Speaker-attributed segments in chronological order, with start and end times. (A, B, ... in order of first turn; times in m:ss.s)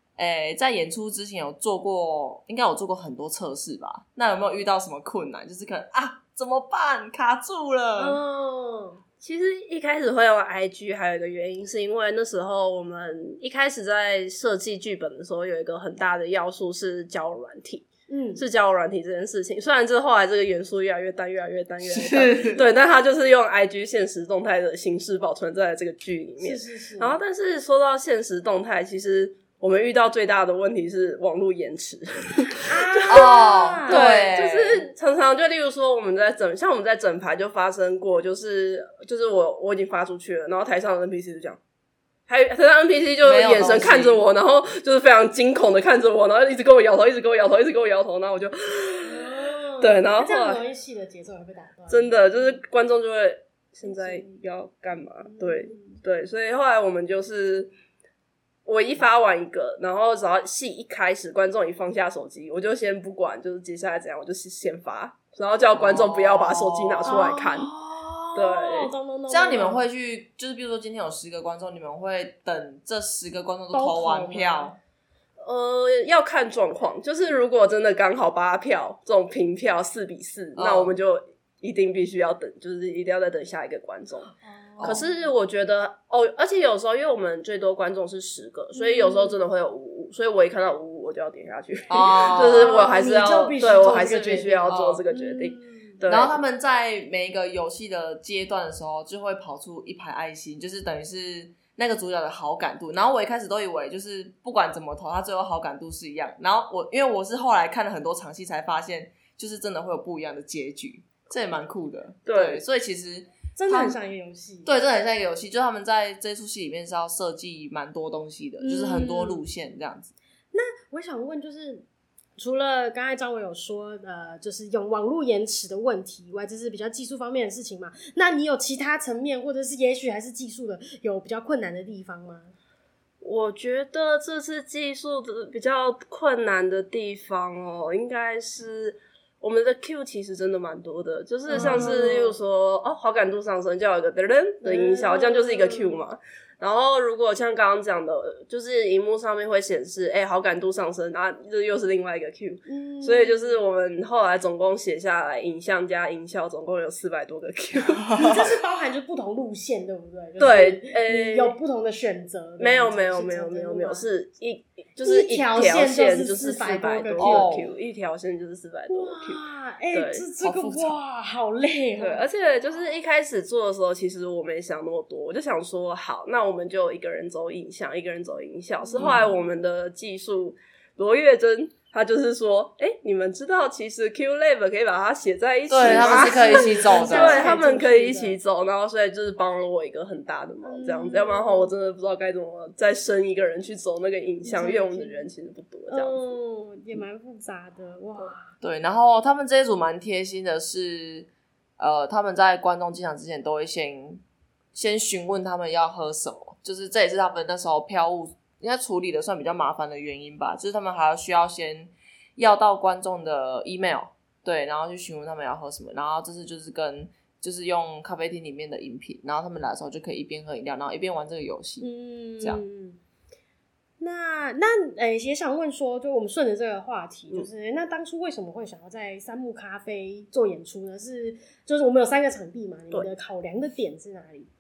0:00.2-0:08.2 A
0:08.0-0:09.0 B
0:09.2-0:33.2 C
0:18.1-0:18.4 B
0:21.8-0:22.6 A
0:26.4-0:27.2 B
0:32.6-0:34.0 B
0:33.1-0:34.8 A
0:33.9-0:41.6 C
0:42.3-0:50.6 C
0:43.2-0:44.2 A
0:49.0-0:52.5 B
0:51.9-0:57.7 C
0:53.8-0:54.3 B
0:55.3-0:56.0 B
0:58.6-1:07.7 C
1:05.7-1:07.2 A
1:07.0-1:09.8 B
1:08.3-1:08.9 C
1:09.3-1:14.8 A
1:13.7-1:14.7 B
1:15.4-1:36.4 C
1:20.6-1:21.0 A
1:24.4-1:25.0 B
1:24.8-1:25.0 A
1:28.7-1:29.4 B
1:31.9-1:32.8 A
1:32.4-1:36.0 B
1:34.7-1:35.0 A
1:36.1-1:54.0 A
1:52.2-1:52.6 C
1:53.6-1:54.7 B
1:54.6-2:00.1 A
1:58.6-1:59.4 B
2:00.5-2:01.8 B
2:02.4-2:12.5 B
2:13.2-2:38.3 C
2:21.5-2:22.4 B
2:21.6-2:21.9 A
2:24.6-2:26.0 B
2:32.7-2:33.6 B
2:38.0-2:38.4 A
2:38.1-2:44.0 B
2:40.4-2:41.6 C
2:42.6-2:50.3 C
2:45.0-2:47.5 B
2:47.2-2:47.7 A
2:48.9-2:52.2 B
2:50.4-2:51.0 A
2:52.0-3:16.3 C
2:58.8-2:59.3 B
2:59.0-2:59.3 A
3:05.7-3:07.6 A
3:05.8-3:08.4 B
3:10.6-3:11.7 B
3:14.4-3:15.3 B
3:15.9-3:18.5 B
3:18.6-3:24.2 A
3:24.7-3:41.9 A
3:41.8-3:43.0 B
3:44.0-3:54.5 B